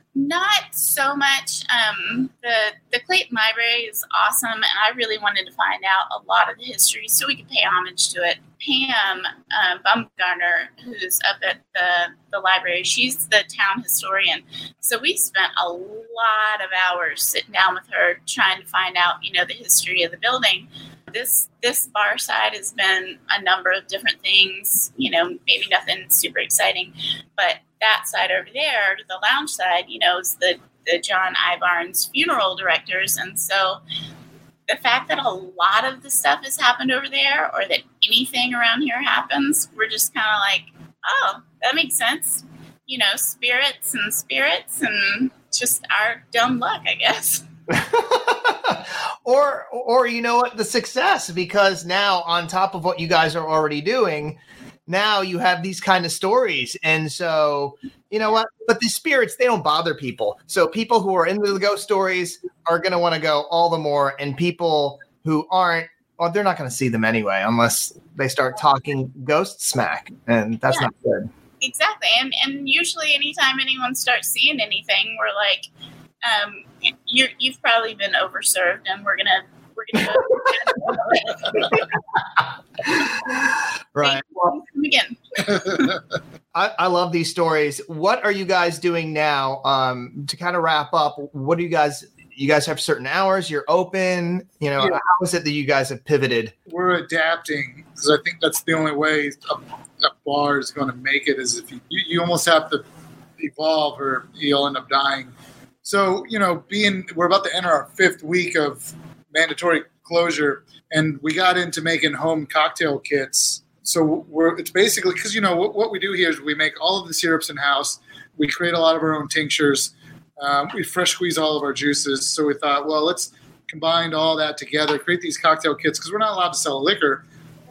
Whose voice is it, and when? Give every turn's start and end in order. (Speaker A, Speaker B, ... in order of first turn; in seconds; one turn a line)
Speaker A: 0.1-33.8
Speaker A: 34.7-47.4
Speaker B: 47.7-71.3
Speaker A: 71.6-75.7
Speaker A: 76.2-81.9
Speaker B: 81.6-81.8
Speaker A: 83.0-83.4
Speaker B: 84.0-84.2
Speaker A: 84.0-86.0
Speaker B: 86.5-96.5
Speaker C: 96.7-102.8
Speaker C: 103.4-105.3
Speaker C: 105.8-127.2